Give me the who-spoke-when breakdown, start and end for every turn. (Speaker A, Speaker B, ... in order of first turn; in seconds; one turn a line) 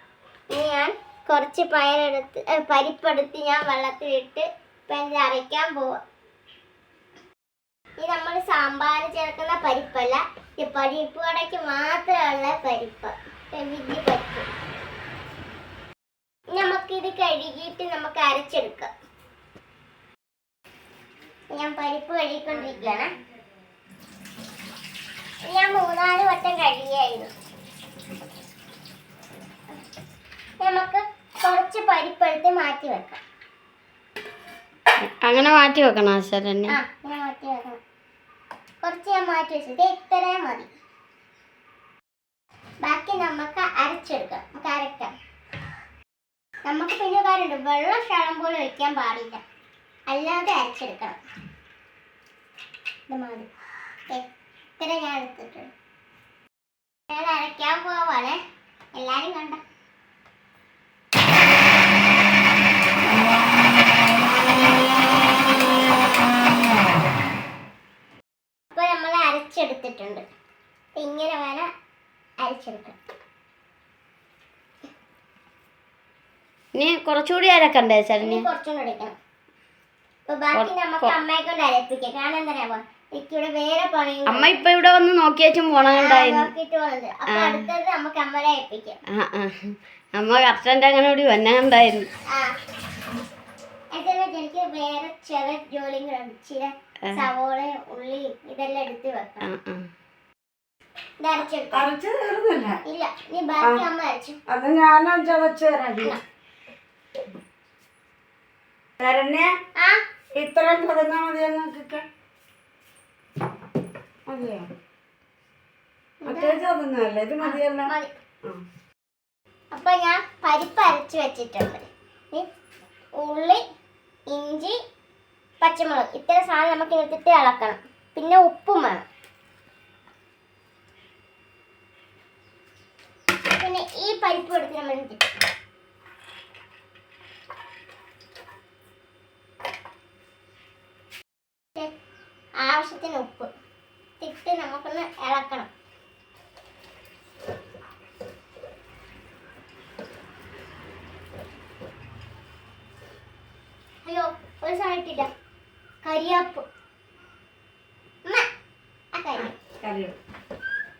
Speaker A: 0.5-6.0
Speaker A: 8.0-14.5
Speaker A: 16.5-18.9
Speaker A: 21.5-23.1
Speaker A: 25.5-27.3
Speaker A: 30.6-33.2
Speaker B: 35.0-36.8
Speaker A: 36.7-37.8
Speaker A: 38.8-40.7
Speaker A: 42.8-45.1
Speaker A: 46.6-49.4
Speaker A: 50.1-51.2
Speaker A: 53.1-53.5
Speaker A: 54.8-55.7
Speaker A: 57.1-58.4
Speaker A: 58.9-59.6
Speaker A: 68.7-70.2
Speaker A: 71.0-71.7
Speaker A: 72.4-73.0
Speaker B: 76.7-78.5
Speaker A: 78.2-79.2
Speaker A: 80.3-84.6
Speaker B: 80.5-81.1
Speaker B: 84.3-86.5
Speaker A: 85.9-89.0
Speaker B: 87.3-87.6
Speaker B: 89.1-92.1
Speaker A: 92.3-92.6
Speaker A: 93.9-99.5
Speaker B: 99.5-99.9
Speaker A: 101.2-101.8
Speaker C: 101.7-102.8
Speaker A: 102.8-104.4
Speaker C: 104.5-106.2
Speaker C: 109.0-109.5
Speaker C: 110.3-112.0
Speaker C: 114.3-114.7
Speaker A: 116.2-116.6
Speaker C: 116.2-117.9
Speaker A: 117.4-118.1
Speaker A: 119.7-122.5
Speaker A: 123.2-123.6
Speaker A: 124.3-124.8
Speaker A: 125.6-129.0
Speaker A: 133.5-135.3
Speaker A: 142.6-143.5
Speaker A: 144.2-145.7
Speaker A: 154.0-155.3
Speaker A: 156.0-156.6
Speaker A: 159.1-159.5
Speaker C: 159.8-160.2